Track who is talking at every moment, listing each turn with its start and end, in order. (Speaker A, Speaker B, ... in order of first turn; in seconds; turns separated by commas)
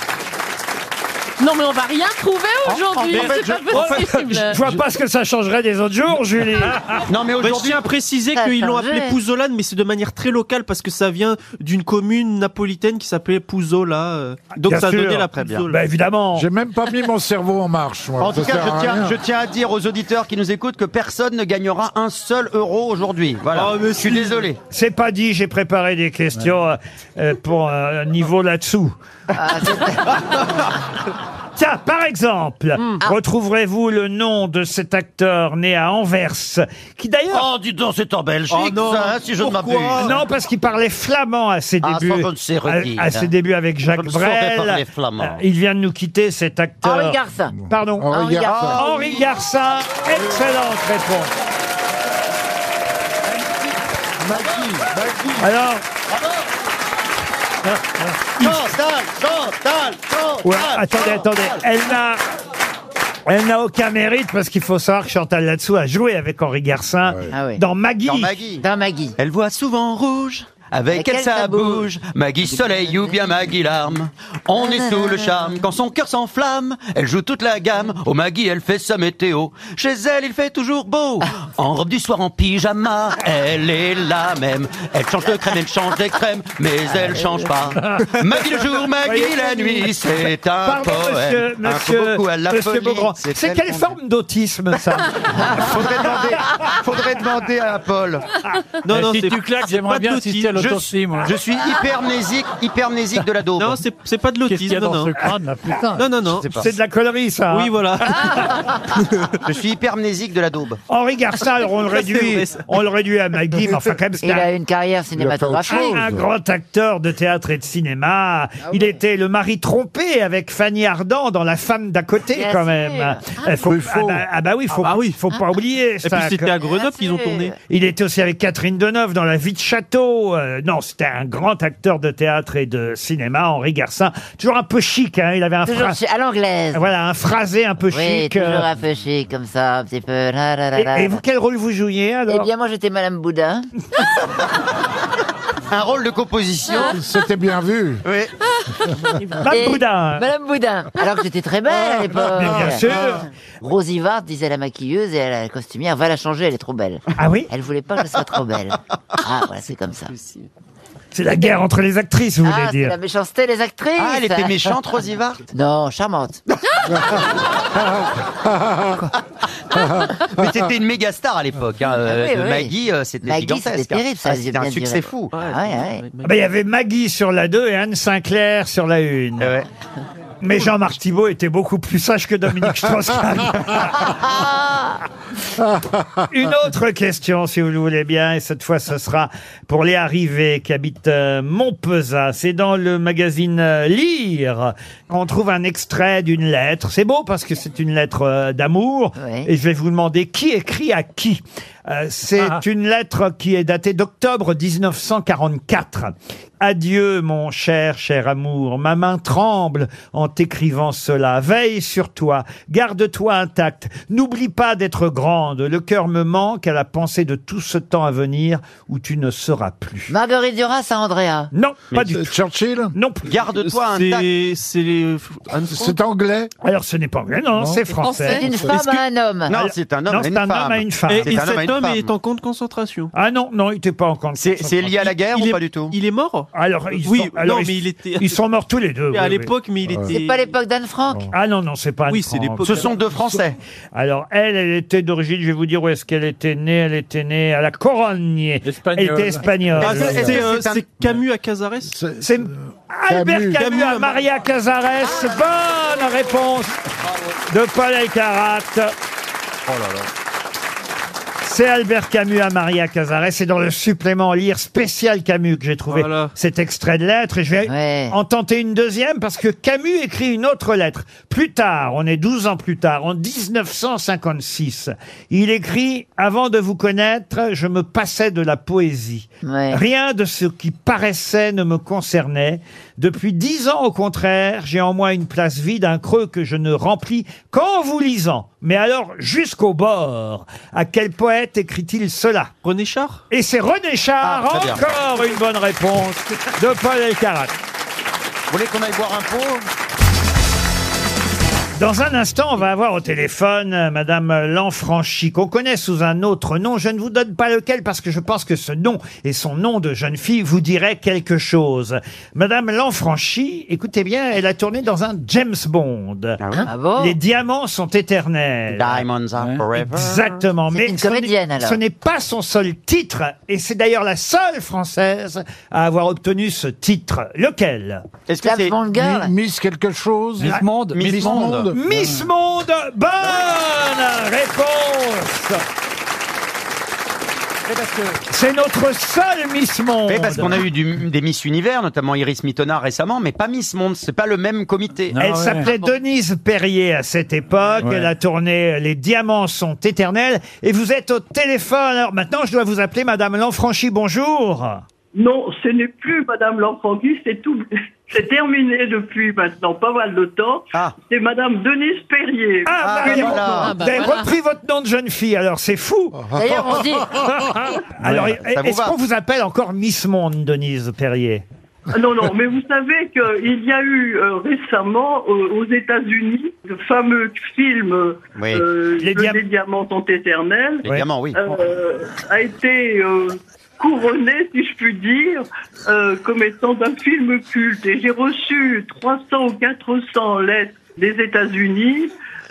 Speaker A: 1.4-4.6, Speaker B: 2.7-3.7, Speaker C: 3.1-3.8, Speaker D: 3.7-7.1, Speaker B: 7.1-7.8, Speaker C: 7.4-15.8, Speaker E: 8.3-9.2, Speaker D: 14.6-16.5, Speaker B: 15.3-15.6, Speaker F: 16.3-19.1, Speaker B: 18.2-24.6, Speaker C: 23.5-24.4, Speaker D: 24.7-28.9, Speaker E: 29.3-30.1, Speaker D: 31.6-37.5, Speaker B: 37.3-40.1, Speaker C: 38.5-40.2, Speaker D: 40.0-48.1, Speaker B: 41.8-43.3, Speaker B: 43.9-45.4, Speaker E: 46.8-47.5, Speaker F: 47.5-48.8, Speaker E: 48.1-48.8, Speaker B: 48.4-49.3, Speaker D: 48.8-51.3, Speaker B: 53.3-55.5, Speaker D: 55.4-55.8, Speaker B: 56.1-56.4, Speaker B: 58.4-61.6, Speaker D: 60.4-62.2, Speaker D: 63.3-68.3, Speaker F: 67.0-67.3, Speaker E: 67.3-67.6, Speaker B: 68.0-68.6, Speaker E: 68.6-69.2, Speaker B: 69.2-93.9, Speaker E: 70.9-71.9, Speaker E: 72.5-73.3, Speaker E: 74.6-75.6, Speaker D: 89.0-90.0, Speaker D: 90.6-95.6, Speaker B: 95.4-98.3, Speaker C: 98.8-100.5, Speaker G: 98.9-101.3, Speaker B: 100.5-103.8, Speaker C: 103.6-105.2, Speaker G: 104.5-106.1, Speaker C: 106.0-106.5, Speaker B: 106.4-106.7, Speaker D: 106.6-108.5, Speaker C: 107.5-109.0, Speaker B: 109.4-110.8, Speaker D: 110.9-114.5, Speaker C: 111.9-112.6, Speaker E: 114.2-116.0, Speaker F: 115.1-116.3, Speaker D: 115.7-126.5, Speaker E: 118.7-119.0, Speaker E: 122.3-123.3, Speaker F: 123.6-124.2, Speaker C: 124.7-125.2, Speaker C: 126.0-127.5, Speaker E: 126.7-127.5, Speaker D: 127.7-136.0, Speaker E: 135.7-136.8, Speaker D: 136.7-138.7, Speaker E: 137.9-141.2, Speaker D: 140.8-142.5, Speaker E: 142.3-143.7, Speaker B: 145.7-146.9, Speaker F: 146.8-148.0, Speaker B: 148.0-148.3, Speaker D: 149.4-150.2, Speaker E: 149.5-152.9, Speaker F: 152.1-153.2, Speaker D: 152.3-153.2, Speaker E: 153.6-160.1, Speaker D: 157.2-157.5, Speaker A: 160.2-160.4, Speaker D: 161.1-162.9, Speaker E: 162.4-164.7, Speaker B: 164.0-165.4, Speaker E: 165.5-166.4, Speaker B: 170.2-175.3, Speaker E: 171.9-172.7, Speaker E: 173.2-176.1, Speaker C: 175.3-176.4, Speaker D: 176.2-179.5, Speaker B: 179.4-179.7, Speaker D: 180.4-184.1, Speaker E: 184.2-184.8, Speaker D: 186.3-220.1, Speaker E: 199.2-199.5, Speaker E: 220.1-221.5, Speaker D: 221.5-222.3, Speaker F: 221.9-222.9, Speaker D: 222.9-223.4, Speaker B: 223.2-224.3, Speaker C: 223.6-226.0, Speaker F: 225.7-226.5, Speaker D: 226.6-228.4, Speaker F: 227.6-227.9, Speaker A: 228.0-228.5, Speaker E: 228.3-229.5, Speaker F: 228.5-228.7, Speaker C: 228.7-229.0, Speaker B: 229.5-232.1, Speaker D: 229.5-231.4, Speaker C: 231.1-233.1, Speaker D: 233.1-235.0, Speaker B: 234.4-235.9, Speaker C: 235.0-238.4, Speaker D: 236.5-239.5, Speaker C: 239.1-240.5, Speaker F: 239.8-240.1, Speaker E: 240.1-241.3, Speaker D: 241.3-243.1, Speaker C: 242.1-242.9, Speaker B: 242.6-243.5, Speaker D: 243.9-250.4, Speaker G: 248.6-249.4, Speaker C: 249.8-251.9, Speaker B: 249.8-250.8, Speaker F: 250.0-250.3, Speaker F: 251.8-253.6, Speaker D: 252.2-256.8, Speaker C: 253.6-254.2, Speaker D: 257.5-258.9, Speaker B: 259.7-260.1, Speaker D: 261.4-292.5, Speaker C: 265.9-266.3, Speaker E: 267.6-268.1, Speaker E: 279.4-279.8, Speaker C: 292.6-293.2, Speaker D: 293.3-297.5, Speaker B: 294.2-294.8, Speaker B: 298.5-299.7, Speaker D: 301.8-316.4, Speaker B: 316.4-316.7, Speaker E: 316.5-317.1, Speaker D: 317.0-319.1, Speaker B: 318.7-320.2, Speaker G: 319.4-319.6, Speaker D: 319.8-328.0, Speaker E: 320.7-321.8, Speaker B: 328.3-328.8, Speaker E: 328.4-329.3, Speaker F: 328.9-332.1, Speaker G: 330.4-331.0, Speaker D: 330.4-335.6, Speaker B: 330.9-331.7, Speaker D: 338.2-340.6, Speaker B: 340.1-345.2, Speaker G: 345.1-345.7, Speaker D: 345.2-354.8, Speaker E: 345.6-345.9, Speaker G: 347.8-348.1, Speaker H: 355.1-363.4, Speaker D: 362.7-366.2, Speaker B: 362.8-363.8, Speaker A: 363.6-364.3, Speaker F: 366.2-367.5, Speaker E: 366.3-367.6, Speaker D: 367.6-371.4, Speaker G: 368.0-368.4, Speaker B: 368.5-368.9, Speaker H: 371.9-392.1, Speaker B: 378.4-378.6, Speaker D: 379.0-379.4, Speaker B: 380.8-381.4